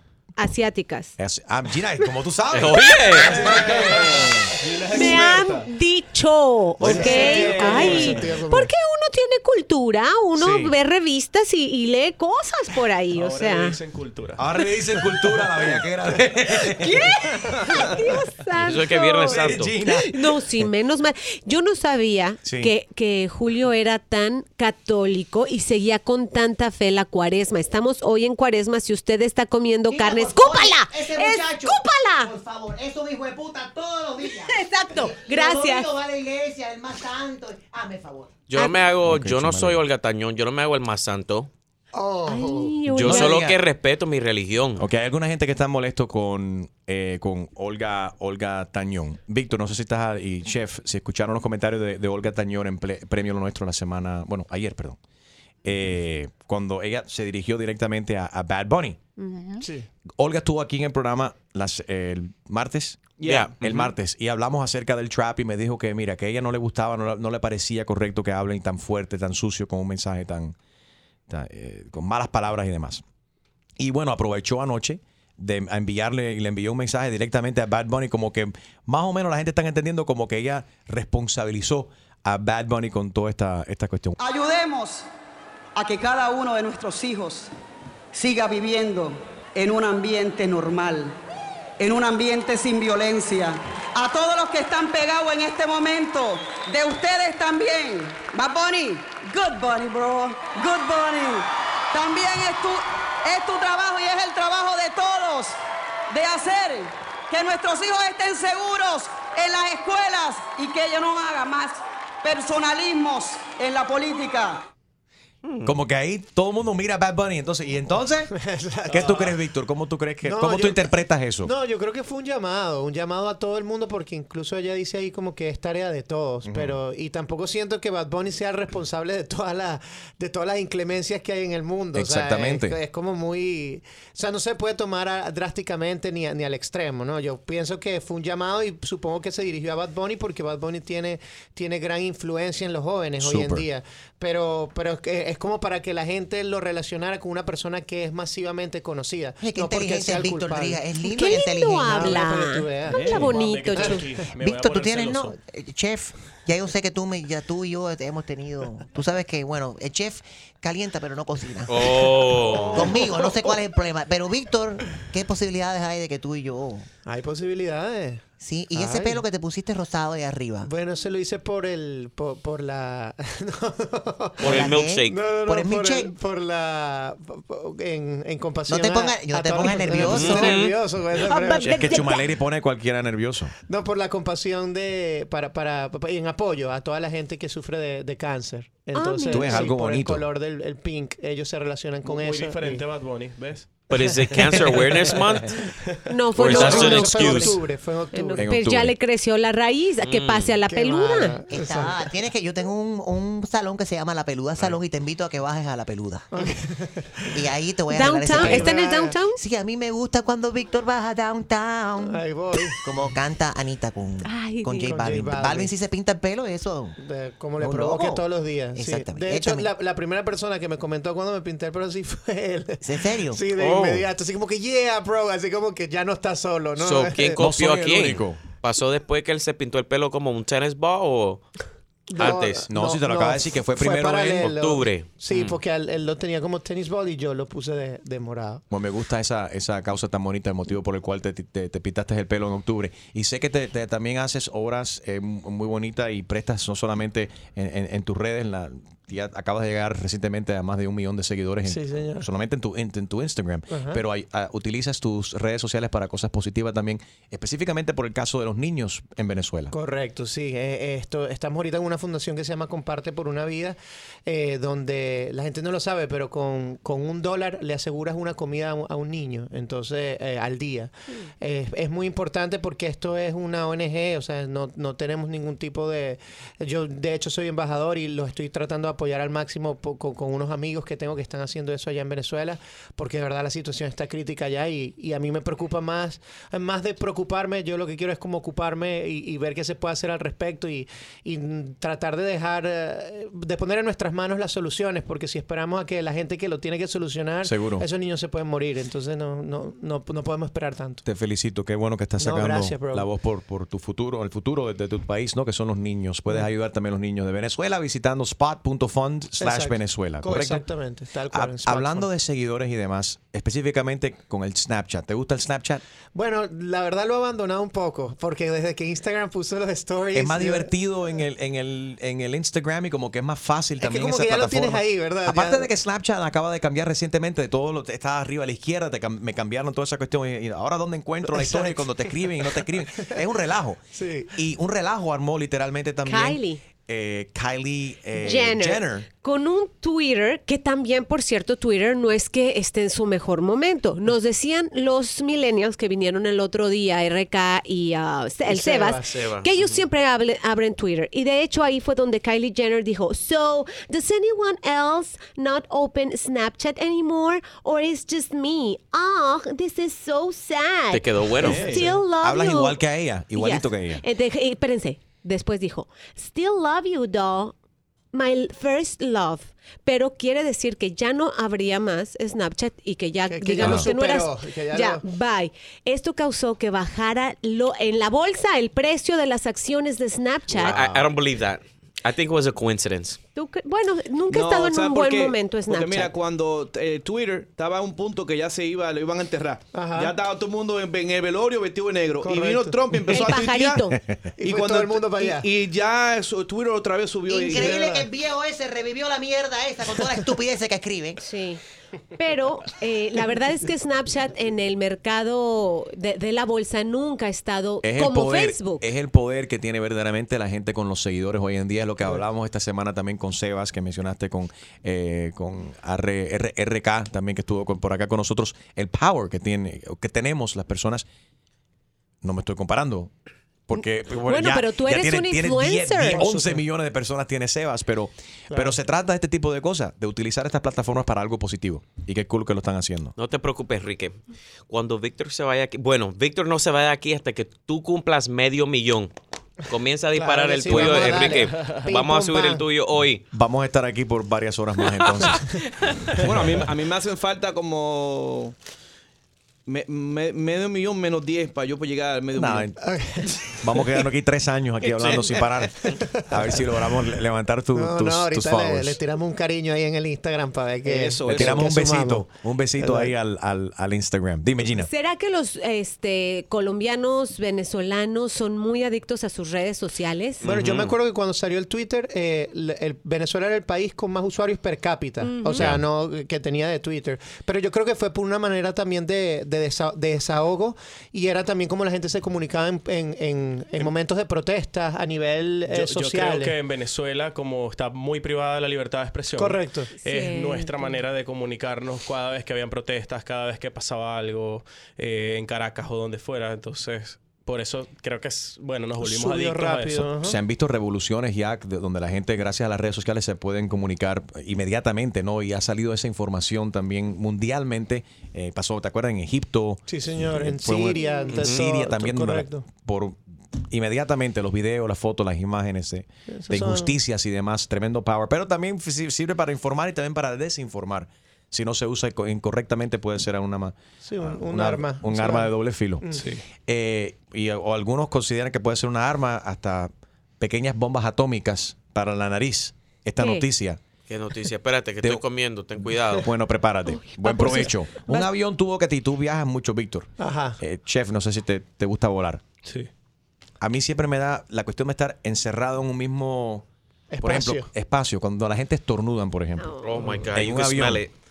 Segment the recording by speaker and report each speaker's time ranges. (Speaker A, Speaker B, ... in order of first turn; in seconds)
Speaker A: 0.4-1.1, 4.9-13.8, 16.6-32.3, 34.3-35.9, 38.5-38.8, 42.3-43.4, 59.2-59.6, 151.1-154.1, 181.2-182.3, 188.9-189.7, 196.1-197.6, 198.1-201.3, 207.9-209.4, 214.2-214.9, 336.0-336.6, 338.2-367.5, 368.1-380.8, 383.3-386.1, 393.1-393.9, 401.2-401.6, 402.1-408.9, 423.8-426.3, 464.7-470.4, 475.2-475.6, 490.0-491.0, 511.0-511.4, 533.2-533.5, 536.9-538.3, 549.6-550.2
Speaker B: 1.2-3.6, 10.3-10.7, 14.4-18.0, 19.2-20.3, 22.4-22.7, 39.0-39.8, 43.0-43.6, 44.8-55.0, 55.6-59.0, 60.2-63.0, 63.6-70.5, 71.3-73.0, 73.8-84.2, 115.6-118.3, 119.0-121.5, 126.4-126.8, 131.9-132.8, 143.2-143.7, 181.6-183.5, 189.3-190.2, 198.4-198.9, 227.4-228.4, 232.7-234.5, 238.7-259.7, 297.4-297.9, 301.0-310.6, 311.3-315.8, 320.1-333.8, 334.3-339.1, 362.2-364.0, 373.6-373.9, 380.6-381.1, 407.8-421.1, 422.2-423.1, 423.7-433.1, 443.3-445.4, 452.3-452.8, 453.6-455.7, 456.2-459.0, 461.3-464.9, 500.2-526.1, 526.7-533.8, 536.1-542.4, 543.6-546.6, 547.2-549.7, 550.3-551.0
Speaker C: 2.5-3.4, 18.6-19.7, 38.5-41.5, 42.9-44.8, 63.2-63.9, 115.4-115.7, 161.7-162.8, 174.4-175.2, 180.0-180.8, 193.9-195.5, 196.3-197.6, 200.0-200.6, 223.5-224.1, 226.8-231.4, 232.2-232.7, 234.4-235.6, 349.1-349.8, 360.9-361.7, 380.5-383.2, 433.1-434.2, 434.7-439.1, 439.7-443.2, 445.0-446.2, 470.4-470.9, 511.3-511.6, 534.1-536.3, 549.8-551.1
Speaker D: 3.2-5.6, 6.8-8.2, 63.2-63.6, 152.8-153.4, 361.4-361.9, 384.3-393.9, 394.4-397.8, 446.2-448.5, 449.7-452.7, 460.8-461.6
Speaker E: 3.5-5.6, 13.1-14.4, 118.9-119.3, 153.1-155.4, 192.0-193.8, 440.7-441.8, 485.7-500.1, 526.1-526.4
Speaker F: 6.8-8.7, 41.9-42.8, 59.6-59.9, 118.3-119.2, 120.2-150.8, 151.8-153.1, 162.4-163.5, 167.1-168.2, 168.7-169.2, 170.6-182.1, 183.7-192.8, 193.9-194.9, 196.4-198.4, 200.7-202.1, 206.3-207.5, 208.3-209.2, 212.0-212.8, 214.8-215.7, 217.0-227.4, 232.1-238.6, 251.7-252.3, 253.7-254.0, 259.7-301.0, 302.2-303.1, 309.4-312.1, 316.1-320.7, 323.8-325.7, 331.3-333.2, 333.9-334.4, 348.4-349.2, 373.3-375.0, 389.7-390.1, 392.2-392.8, 394.4-395.5, 397.4-398.1, 426.1-426.6, 428.5-428.8, 440.1-442.6, 452.8-453.9, 455.9-456.3, 457.7-462.2, 462.8-463.1, 470.4-486.6, 489.3-489.9, 499.0-500.4, 509.9-512.6, 516.3-517.0, 524.0-526.3, 540.2-540.6, 547.1-547.7
Speaker G: 29.9-38.4, 149.4-152.1, 154.5-161.8, 162.7-166.9, 168.4-170.7, 174.5-176.1, 178.7-180.5, 201.5-206.2, 207.3-212.2, 212.8-216.9, 217.6-218.2, 218.7-219.7, 222.8-223.4, 397.2-401.2
Speaker H: 84.2-85.1, 85.7-87.5, 88.1-91.2, 91.8-105.6, 106.1-114.7